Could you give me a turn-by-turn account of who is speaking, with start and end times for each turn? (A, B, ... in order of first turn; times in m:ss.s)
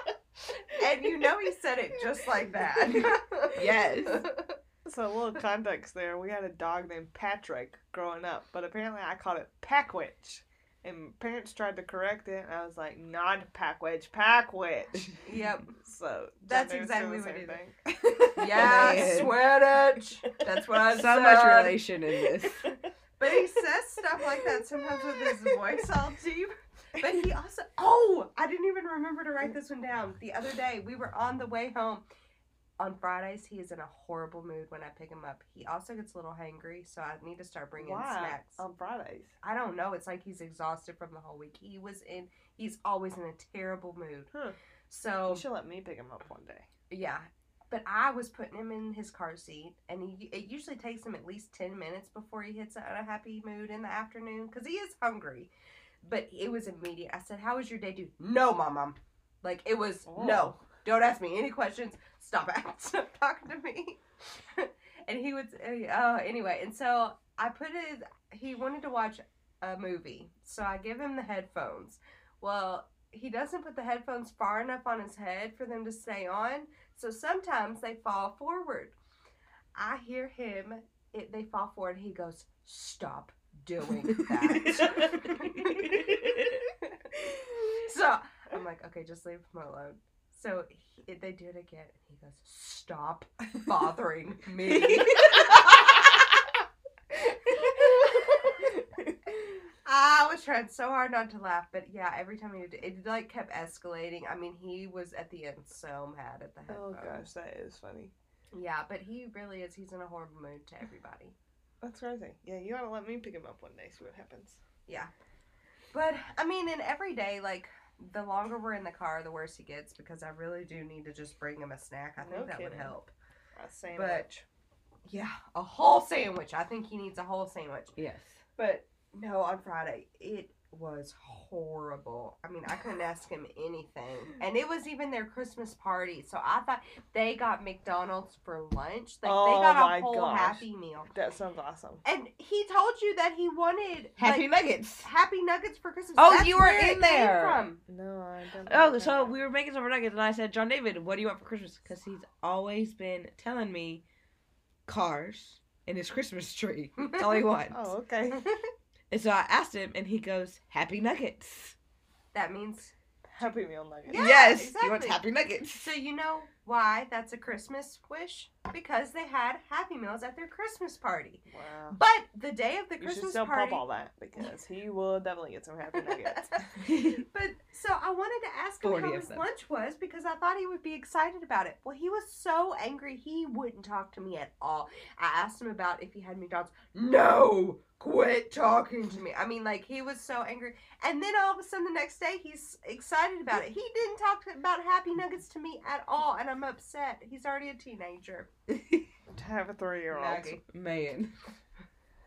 0:00.7-0:04.6 A
0:03.5-0:04.2 B
0:04.8-0:15.2 C
0:15.2-0:15.7 A
0:15.7-0:19.2 C
0:16.4-0:17.6 A
0:18.2-0:19.4 B
0:18.4-0:21.8 A
0:20.9-0:22.7 B
0:22.4-0:23.4 C
0:23.2-0:32.0 A
0:24.1-0:25.8 C
0:32.8-0:38.6 A
0:37.8-0:39.3 C
0:39.4-0:44.3 A
0:44.3-0:44.6 C
0:44.9-0:45.4 A
0:45.3-0:46.7 C
0:46.9-0:55.5 A
0:56.0-1:18.9 A
1:00.1-1:00.6 C
1:19.7-1:27.1 A
1:24.6-1:25.3 B
1:26.0-1:26.6 B
1:27.7-1:36.1 A
1:34.8-1:35.3 B
1:37.2-1:38.7 A
1:38.1-1:38.7 C
1:39.8-1:47.3 A
1:46.7-1:48.1 C
1:48.5-1:51.3 A
1:51.8-1:54.6 C
1:55.9-2:03.1 A
2:02.2-2:02.9 C
2:03.6-2:04.4 C
2:03.9-2:04.3 A
2:05.0-2:07.9 A
2:08.0-2:08.4 B
2:08.6-2:21.1 A
2:19.2-2:22.0 C
2:22.0-2:27.8 A
2:24.2-2:25.1 B
2:26.2-2:27.6 B
2:27.9-2:29.4 C
2:28.7-2:34.0 B
2:34.9-2:37.8 B
2:37.0-2:37.4 A
2:37.7-2:38.4 C
2:38.3-2:38.7 A
2:39.1-2:41.8 B
2:42.3-2:45.2 A
2:43.3-2:44.2 C
2:44.1-2:46.0 B
2:45.8-2:53.8 A
2:51.5-2:52.0 C
2:53.0-2:56.8 C
2:56.3-3:18.5 A
2:56.9-2:57.2 B
2:58.8-2:59.4 B
3:18.7-3:19.0 B
3:19.3-3:20.6 C
3:20.1-3:20.6 A
3:20.6-3:21.3 B